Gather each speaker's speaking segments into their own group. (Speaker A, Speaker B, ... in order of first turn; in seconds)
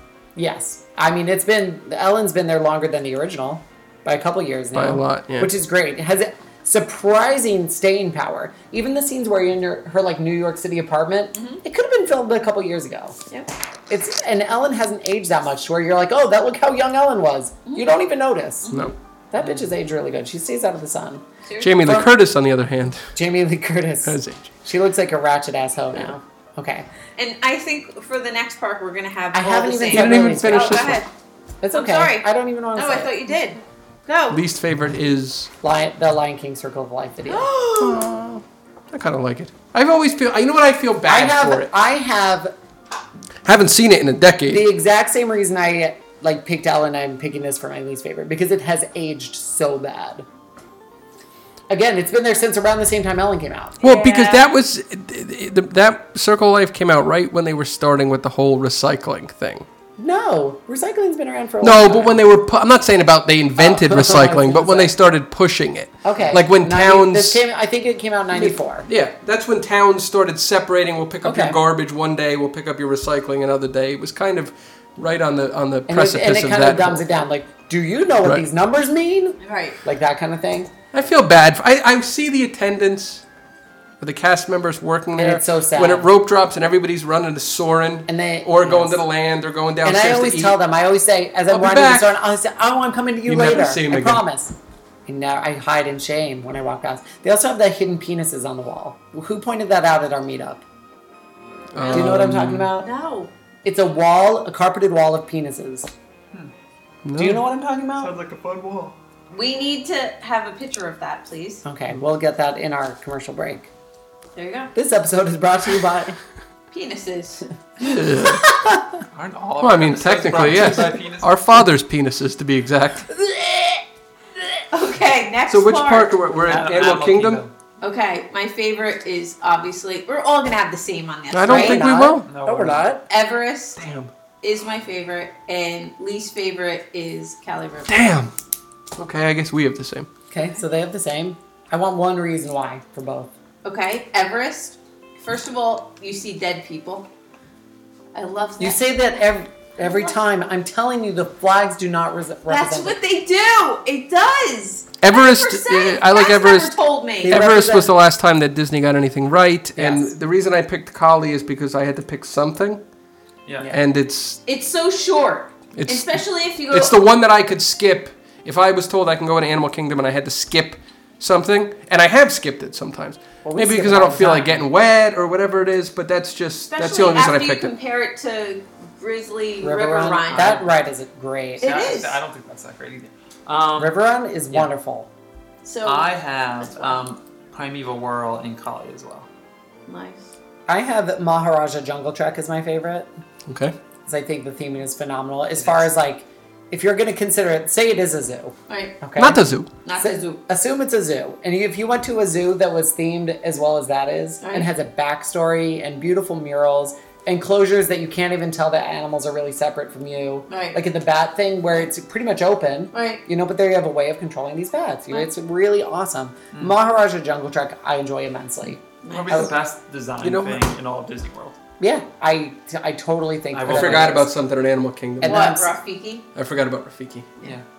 Speaker A: 0.3-13.2, 13.9-18.8, 19.3-21.2, 21.8-22.1, 23.1-26.9, 29.3-30.9, 31.6-33.2, 35.6-37.5, 41.0-42.5, 44.5-50.2, 51.7-53.8, 60.0-62.2, 63.6-64.9, 66.0-68.9, 71.2-71.6, 75.9-80.7, 85.2-86.1, 88.1-89.0, 89.8-94.5, 95.0-100.6, 101.9-102.9, 103.6-105.9, 107.2-108.1, 111.6-113.7, 114.7-116.2, 118.3-118.8, 131.4-133.0, 140.3-143.3, 148.6-152.9, 157.2-157.9, 159.8-160.1, 173.4-174.6, 179.6-181.7, 183.8-185.1, 190.7-193.1, 194.1-199.4, 199.9-219.5, 221.8-224.3, 225.2-225.7
Speaker B: 4.7-5.5, 21.6-23.1, 24.0-24.5, 29.9-31.0, 34.3-35.5, 37.7-41.7, 43.4-44.6, 53.8-59.6, 61.6-67.4, 68.3-77.2, 80.9-83.2, 84.0-90.6, 91.5-92.1, 93.2-94.2, 101.7-102.7, 107.0-107.4, 117.8-118.5, 119.6-123.1, 125.5-127.4, 131.3-132.3, 133.8-134.1, 137.9-138.3, 138.9-140.1, 155.0-156.7, 157.3-162.8, 163.7-164.4, 165.7-177.7, 193.5-193.7, 199.2-199.7, 220.2-220.7, 223.7-225.5, 226.3-227.3
Speaker C: 11.3-11.6, 17.6-17.9, 18.6-18.9, 21.4-21.8, 27.2-31.1, 31.7-34.4, 37.2-38.1, 53.8-54.5, 79.4-79.8, 102.8-103.3, 109.3-111.6, 114.3-114.7, 116.7-117.5, 124.7-126.2, 127.8-132.0, 133.1-133.8, 134.4-138.0, 143.6-147.1, 148.1-149.2, 149.8-150.2, 152.5-157.4, 164.4-167.0, 176.7-180.6, 181.6-182.2, 185.6-187.0, 189.8-190.3, 198.7-199.0, 199.8-200.4, 204.4-204.7, 210.5-210.8, 212.9-213.2, 219.0-219.5, 225.2-226.2
Speaker D: 108.0-109.0, 119.1-121.3, 126.4-127.5, 132.2-132.9, 163.4-163.7, 180.3-180.7, 181.6-184.0, 185.8-189.3, 195.6-195.9, 219.1-221.5, 223.5-224.2